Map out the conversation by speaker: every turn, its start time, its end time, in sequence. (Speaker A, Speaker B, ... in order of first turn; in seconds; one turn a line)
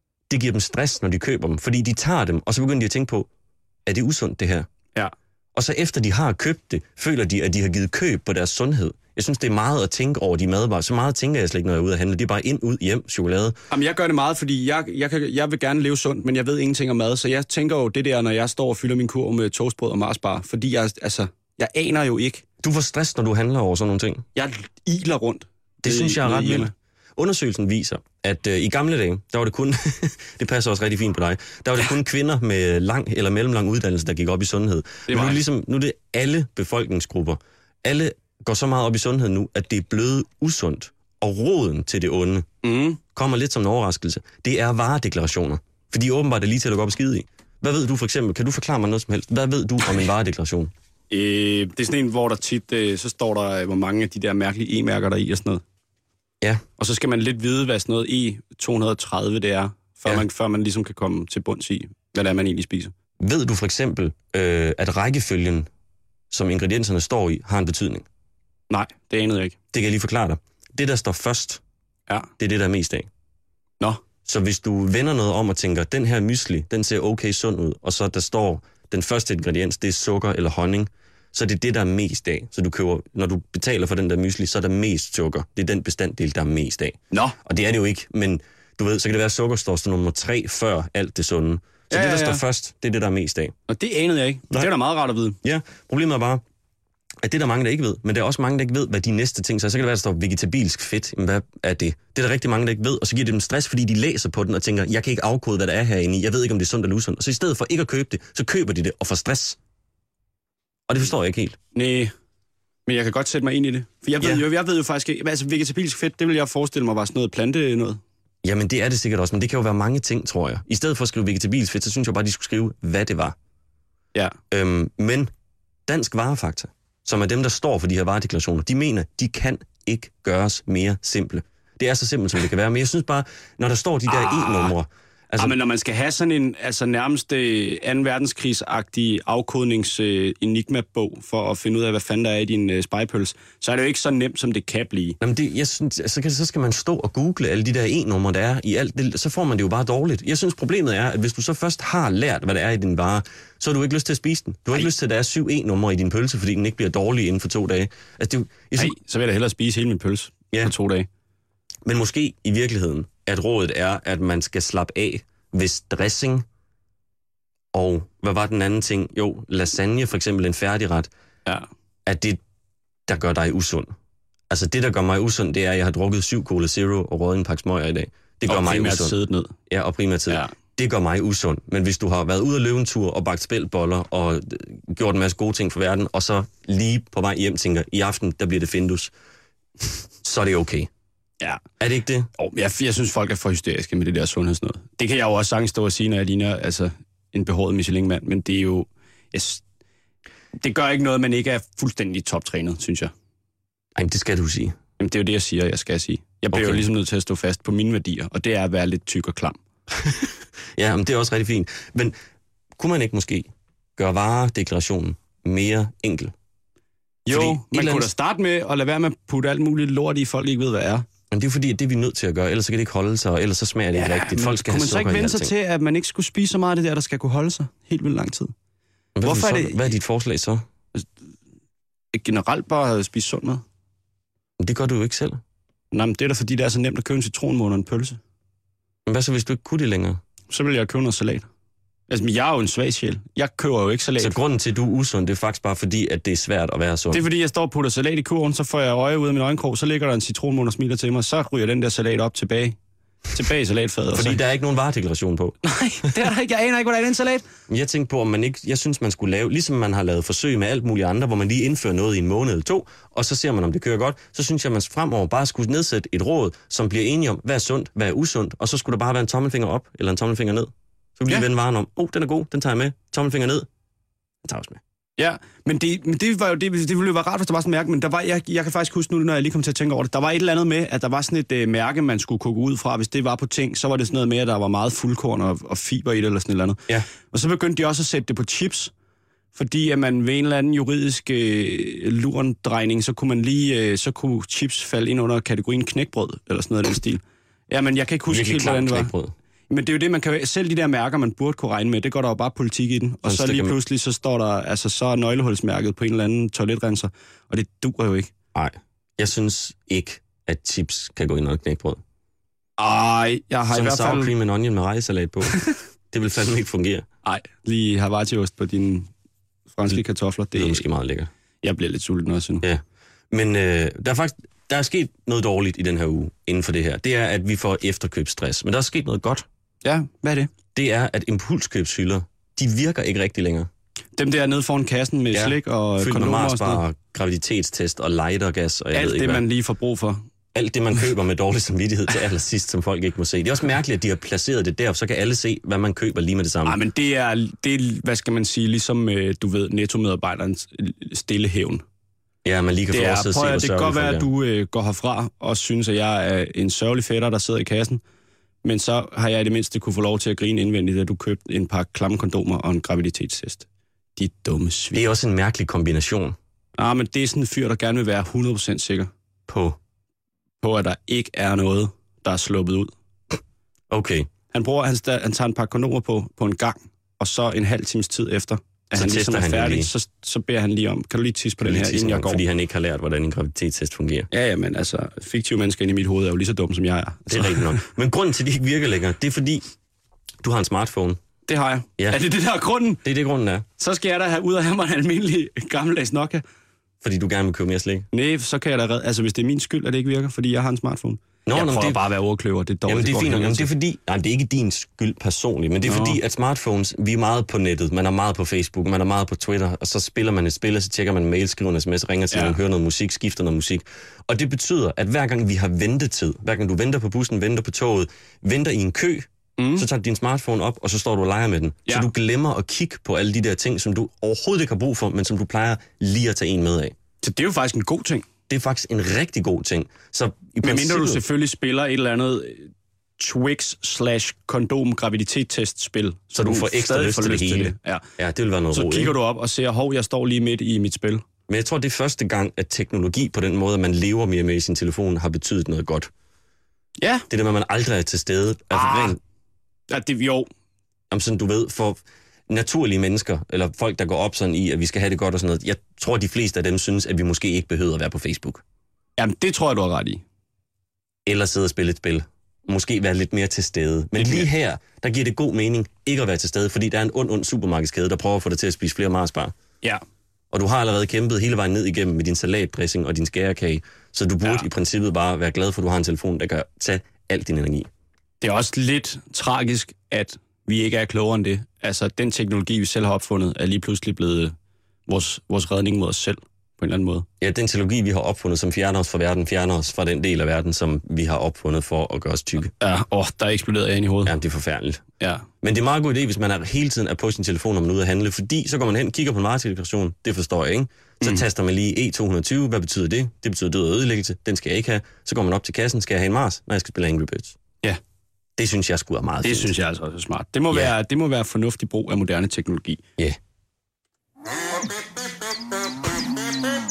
Speaker A: 0.3-3.3
Speaker A: 3.9-4.7
Speaker A: 5.5-13.6
Speaker B: 13.7-22.4
Speaker A: 22.6-24.2
Speaker B: 24.4-26.7
Speaker A: 25.8-42.5
Speaker B: 35.1-35.4
Speaker B: 42.6-43.0
Speaker A: 43.1-50.7
Speaker B: 51.1-55.6
Speaker B: 56.8-62.9
Speaker A: 63.2-65.7
Speaker A: 66.3-68.0
Speaker B: 68.7-69.6
Speaker A: 69.7-71.6
Speaker A: 72.4-73.1
Speaker A: 74.2-93.5
Speaker B: 91.9-92.4
Speaker B: 93.7-95.4
Speaker A: 95.4-96.4
Speaker A: 97.2-109.6
Speaker A: 110.9-111.6
Speaker B: 111.7-112.1
Speaker B: 112.9-118.0
Speaker A: 118.4-123.3
Speaker A: 124.5-125.3
Speaker A: 125.9-135.6
Speaker B: 134.1-134.7
Speaker B: 135.4-145.2
Speaker A: 145.2-159.0
Speaker B: 158.8-161.1
Speaker A: 161.8-166.5
Speaker A: 167.7-171.1
Speaker A: 172.1-172.4
Speaker A: 173.1-173.9
Speaker A: 174.5-179.2
Speaker B: 178.5-179.6
Speaker A: 179.7-189.1
Speaker A: 190.2-190.9
Speaker A: 191.8-192.3
Speaker B: 192.4-199.6
Speaker B: 200.6-203.1
Speaker A: 204.0-204.8
Speaker B: 205.0-209.6
Speaker A: 206.5-206.9
Speaker A: 209.9-212.2
Speaker A: 212.8-216.3
Speaker B: 217.3-221.1
Speaker A: 217.3-218.1
Speaker A: 221.3-225.5
Speaker B: 223.9-228.5
Speaker A: 229.2-230.7
Speaker B: 229.2-229.9
Speaker B: 232.1-233.6
Speaker A: 234.6-235.4
Speaker B: 235.9-238.2
Speaker A: 239.1-240.2
Speaker B: 240.5-241.5
Speaker B: 242.1-244.3
Speaker A: 244.2-247.2
Speaker B: 247.1-252.8
Speaker B: 253.3-254.4
Speaker A: 254.1-255.6
Speaker B: 255.6-257.5
Speaker A: 257.7-273.7
Speaker A: 274.4-274.8
Speaker B: 275.2-288.9
Speaker B: 289.6-299.1
Speaker A: 298.3-299.3
Speaker B: 299.7-308.3
Speaker A: 303.2-303.8
Speaker A: 308.5-312.0
Speaker B: 312.8-314.3
Speaker A: 313.7-317.1
Speaker B: 317.2-319.1
Speaker B: 319.7-320.8
Speaker A: 320.6-321.3
Speaker B: 321.6-322.6
Speaker A: 322.6-329.5
Speaker B: 329.8-330.5
Speaker A: 330.8-333.7
Speaker B: 334.2-336.8
Speaker A: 335.3-339.4
Speaker B: 338.9-340.2
Speaker A: 340.5-346.8
Speaker B: 346.6-351.8
Speaker A: 352.4-354.3
Speaker B: 352.9-358.0
Speaker B: 358.6-363.7
Speaker B: 364.2-365.0
Speaker A: 364.9-366.4
Speaker B: 366.8-369.1
Speaker A: 369.5-369.8
Speaker B: 370.6-372.9
Speaker A: 373.9-374.3
Speaker B: 374.5-382.4
Speaker A: 378.9-379.9
Speaker A: 381.6-384.3
Speaker B: 384.3-387.9
Speaker A: 387.3-389.6
Speaker A: 390.4-391.2
Speaker B: 391.5-393.0
Speaker A: 393.0-393.7
Speaker B: 393.8-396.4
Speaker A: 397.0-398.1
Speaker B: 398.1-403.7
Speaker A: 401.5-402.0
Speaker A: 402.9-426.9
Speaker B: 405.9-406.2
Speaker B: 412.3-412.6
Speaker B: 419.6-419.9
Speaker B: 427.2-428.3
Speaker A: 428.5-431.2
Speaker B: 430.6-438.0
Speaker A: 436.4-439.2
Speaker B: 438.7-441.2
Speaker A: 441.5-446.1
Speaker B: 447.0-447.3
Speaker A: 447.3-449.2
Speaker B: 448.7-449.2
Speaker B: 449.9-450.5
Speaker A: 451.1-458.6
Speaker B: 459.2-460.2
Speaker A: 461.3-469.5
Speaker B: 464.2-464.5
Speaker A: 470.5-477.9
Speaker B: 478.4-484.6
Speaker B: 485.1-487.3
Speaker A: 487.4-492.7
Speaker B: 492.8-494.3
Speaker A: 494.2-495.0
Speaker B: 495.2-495.4
Speaker A: 495.6-507.6
Speaker A: 508.6-509.7
Speaker B: 509.4-513.0